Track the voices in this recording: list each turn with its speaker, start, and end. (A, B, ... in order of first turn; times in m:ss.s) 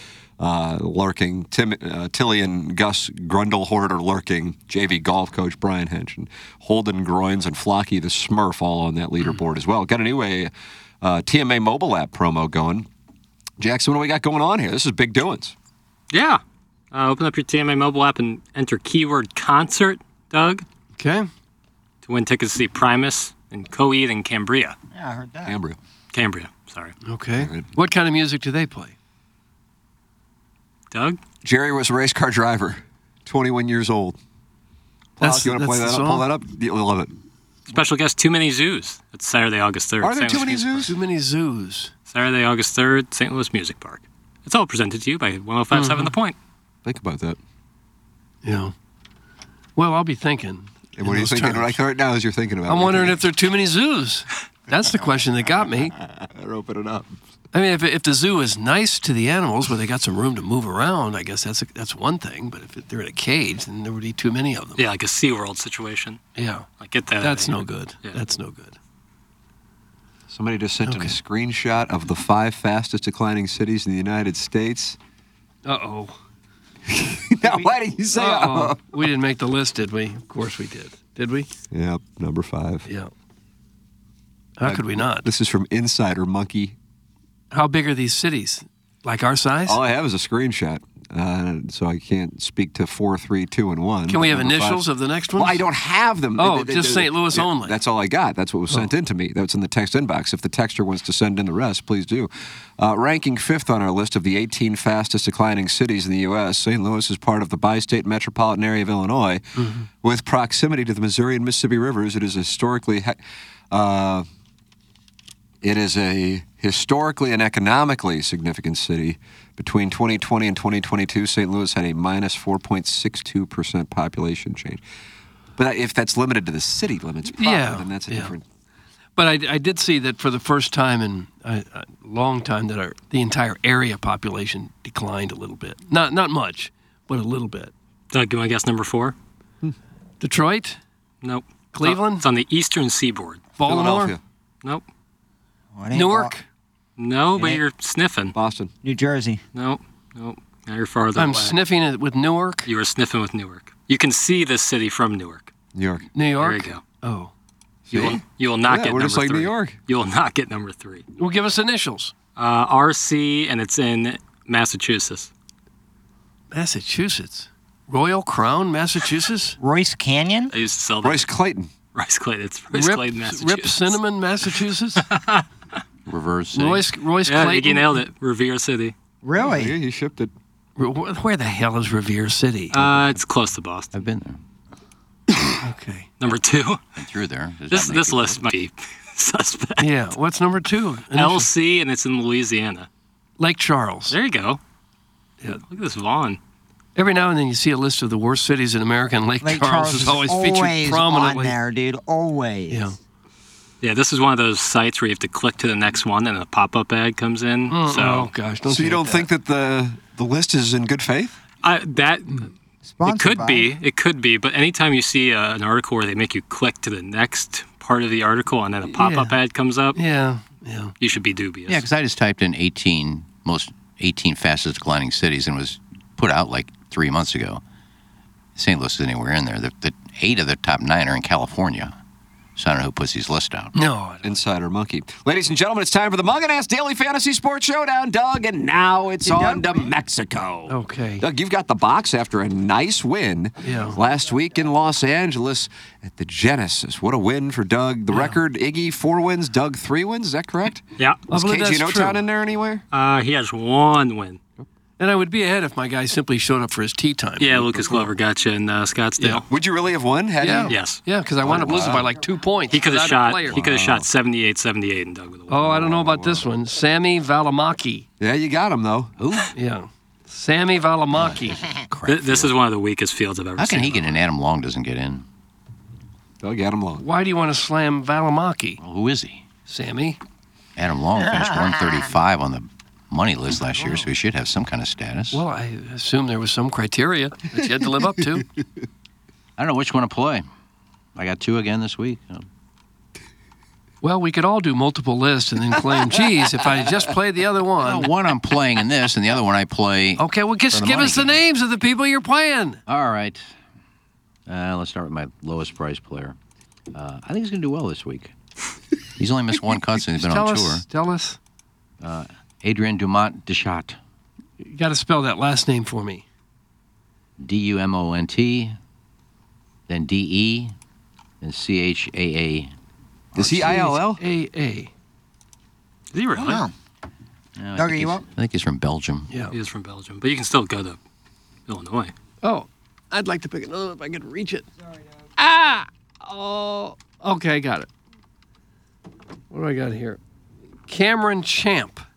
0:00.4-0:12.9 A
0:13.6-0:15.5 A
0:16.1-0:16.4 B
0:16.9-0:20.6 B
0:21.0-0:21.3 C
0:22.0-0:24.8 B
0:24.9-0:25.6 D
0:25.4-0:25.8 A
0:26.1-0:26.9 B
0:27.0-0:28.9 C
0:27.4-0:27.7 A
0:30.9-0:31.2 B
0:31.4-0:34.2 A
0:35.2-0:37.1 A
0:35.2-0:36.3 C
0:37.7-0:40.9 B
0:40.0-0:40.9 A
0:40.8-0:41.9 C
0:42.1-0:46.3 B
0:45.7-0:46.1 C
0:46.8-0:47.4 A
0:48.4-0:48.7 C
0:49.8-0:51.8 C
0:50.9-0:53.2 A
0:52.6-0:55.9 C
0:56.1-0:57.2 A
0:57.5-1:04.8 C
1:04.8-1:06.2 B
1:06.4-1:08.8 C
1:06.8-1:08.2 B
1:10.3-1:15.0 A
1:10.8-1:11.2 C
1:15.6-1:16.2 C
1:16.9-1:18.9 A
1:18.1-1:21.5 C
1:21.7-1:22.8 A
1:22.8-1:23.1 C
1:24.6-1:25.3 C
1:24.6-1:26.8 A
1:27.5-1:29.8 C
1:29.7-1:49.5 A
1:34.1-1:35.7 C
1:36.3-1:37.8 C
1:49.6-1:49.9 C
1:50.0-1:53.2 A
1:53.7-1:54.2 A
1:55.6-2:04.8 A
2:05.6-2:08.4 A
2:07.3-2:08.3 C
2:09.2-2:17.7 C
2:18.1-2:19.1 B
2:20.2-2:20.8 C
2:21.2-2:23.4 B
2:21.7-2:22.2 C
2:23.6-2:24.2 C
2:23.6-2:24.2 A
2:25.8-2:26.3 D
2:25.9-2:26.4 C
2:27.0-2:28.3 B
2:28.3-2:28.7 A
2:28.8-2:29.4 D
2:29.6-2:31.6 B
2:31.2-2:32.7 C
2:32.6-2:35.5 B
2:35.8-2:36.1 A
2:36.1-2:37.3 C
2:36.4-2:36.8 B
2:37.9-2:39.8 A
2:37.9-2:41.0 B
2:41.2-2:42.1 C
2:42.4-2:45.3 B
2:46.5-2:49.6 C
2:49.6-2:50.5 D
2:50.5-2:51.3 B
2:51.0-2:51.7 A
2:51.9-2:54.0 B
2:52.7-2:55.0 C
2:55.0-2:55.4 B
2:56.1-2:56.9 E
2:56.5-2:58.0 C
2:57.2-2:58.9 B
2:59.2-2:59.8 D
2:59.4-3:00.3 A
3:00.8-3:03.0 C
3:02.7-3:03.9 B
3:03.9-3:04.4 E
3:05.6-3:06.1 C
3:06.2-3:06.8 B
3:07.0-3:08.4 E
3:07.7-3:09.9 B
3:09.8-3:11.5 C
3:11.1-3:12.9 B
3:13.4-3:14.2 C
3:14.1-3:14.6 B
3:15.5-3:16.4 B
3:17.0-3:21.6 C
3:19.4-3:22.9 D
3:22.7-3:22.9 C
3:23.8-3:28.3 B
3:27.7-3:29.3 C
3:28.6-3:31.3 A
3:31.6-3:32.5 B
3:32.8-3:33.8 D
3:33.0-3:40.0 B
3:38.9-3:39.4 C
3:39.9-3:40.9 C
3:41.0-3:41.8 B
3:41.7-3:47.6 E
3:48.6-3:52.0 E
3:52.6-3:53.8 E
3:53.7-3:54.5 C
3:54.2-4:12.8 A
3:59.2-3:59.9 D
4:00.7-4:01.2 C
4:03.6-4:04.0 C
4:04.1-4:04.5 D
4:08.1-4:08.4 C
4:11.0-4:11.2 B
4:11.3-4:12.2 C
4:12.9-4:14.4 B
4:15.0-4:18.1 C
4:17.4-4:19.4 B
4:19.2-4:19.4 C
4:19.5-4:20.9 A
4:20.4-4:23.6 C
4:20.7-4:21.0 B
4:21.4-4:22.2 A
4:22.0-4:22.8 D
4:22.7-4:25.7 B
4:23.5-4:24.1 A
4:25.5-4:28.0 C
4:25.6-4:26.4 A
4:28.2-4:29.1 A
4:29.2-4:29.5 E
4:29.5-4:31.8 C
4:31.2-4:32.5 E
4:32.1-4:34.2 B
4:33.6-4:35.2 E
4:36.4-4:37.0 A
4:37.0-4:38.8 C
4:38.8-4:39.4 E
4:39.7-4:40.2 C
4:40.8-4:45.4 E
4:45.3-4:48.5 C
4:49.6-4:50.5 E
4:51.1-4:52.5 E
4:54.0-4:58.1 C
4:57.8-5:01.4 E
5:00.2-5:02.8 C
5:02.9-5:03.5 E
5:04.5-5:06.4 E
5:06.9-5:08.3 E
5:09.2-5:10.8 E
5:10.2-5:11.4 C
5:12.0-5:14.0 E
5:14.6-5:16.2 C
5:17.4-5:18.8 E
5:19.9-5:20.8 E
5:21.4-5:22.7 E
5:23.3-5:23.8 E
5:23.3-5:24.2 A
5:23.6-5:24.9 C
5:26.1-5:26.6 B
5:26.3-5:26.7 D
5:27.6-5:29.3 E
5:27.8-5:28.2 D
5:29.3-5:29.6 C
5:29.5-5:31.0 B
5:31.7-5:32.1 B
5:32.4-5:34.7 C
5:35.4-5:37.9 C
5:39.5-5:40.2 C
5:40.9-5:42.0 C